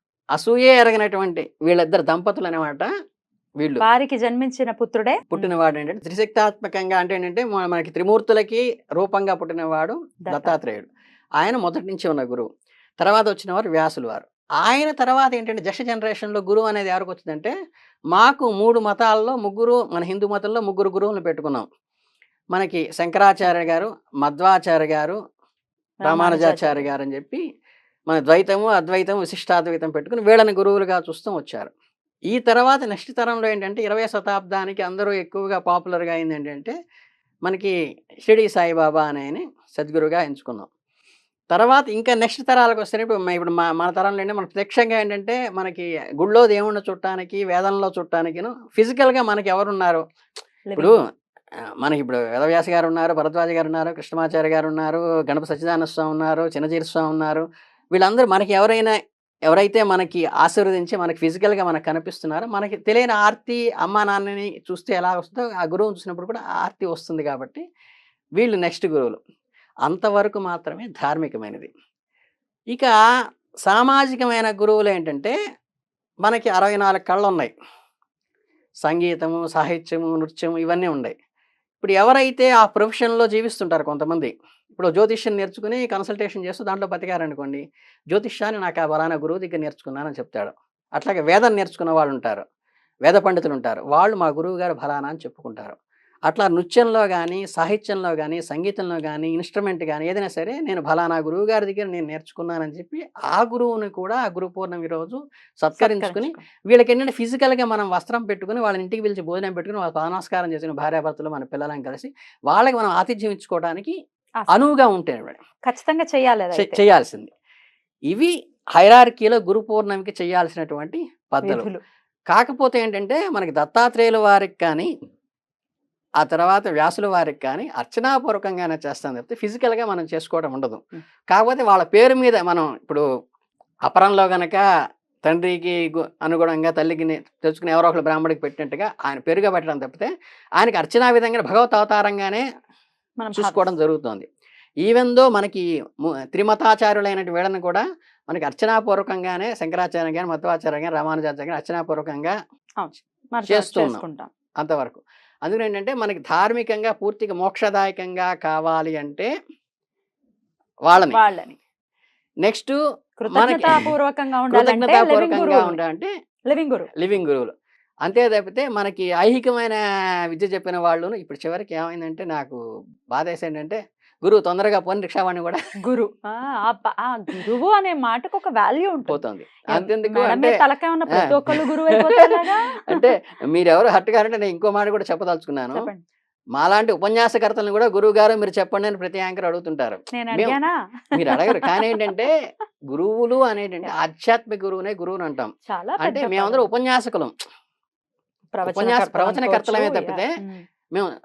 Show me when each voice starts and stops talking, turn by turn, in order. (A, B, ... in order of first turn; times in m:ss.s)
0:00.4-0:02.9 A
0:03.8-0:05.5 B
0:05.3-0:10.9 A
0:10.3-0:10.6 B
0:11.4-0:12.5 A
0:13.0-0:17.5 A
0:18.1-0:21.7 A
0:22.5-0:25.2 A
0:26.0-0:26.9 B
0:26.0-0:27.4 A
0:28.1-0:31.7 A
0:32.3-0:36.8 A
0:37.5-0:40.7 A
0:41.5-0:50.0 A
0:50.7-0:51.0 B
0:51.8-0:58.9 A
0:59.5-1:07.6 A
1:08.4-1:09.2 A
1:09.9-1:11.7 A
1:12.7-1:13.0 A
1:13.7-1:15.4 A
1:16.2-1:17.5 A
1:18.8-1:21.2 A
1:21.8-1:32.4 A
1:33.1-1:54.0 A
1:45.8-1:46.4 B
1:54.4-1:54.7 B
1:54.5-1:55.4 A
1:55.7-1:56.8 B
1:56.6-1:57.3 A
1:58.1-2:01.7 A
2:01.4-2:01.8 B
2:02.3-2:04.9 A
2:06.2-2:13.0 A
2:13.9-2:14.6 A
2:15.3-2:22.4 A
2:23.2-2:23.7 B
2:23.4-2:24.3 A
2:24.8-2:32.4 A
2:32.8-2:34.3 B
2:33.5-2:34.0 A
2:34.6-2:39.3 A
2:40.9-2:41.2 A
2:41.0-2:41.6 B
2:42.4-2:42.8 A
2:43.2-2:45.8 B
2:43.3-2:43.9 A
2:44.5-2:46.1 A
2:46.5-2:46.9 B
2:47.0-2:47.5 A
2:48.0-2:49.8 A
2:50.3-2:52.6 A
2:53.1-2:55.6 A
2:55.8-3:03.1 B
2:59.1-3:00.6 A
3:01.1-3:05.9 A
3:05.8-3:06.0 B
3:06.6-3:10.6 A
3:10.1-3:12.0 B
3:11.2-3:12.3 A
3:12.9-3:15.5 A
3:15.7-3:16.7 B
3:16.0-3:17.3 A
3:18.5-3:20.6 B
3:18.6-3:20.3 A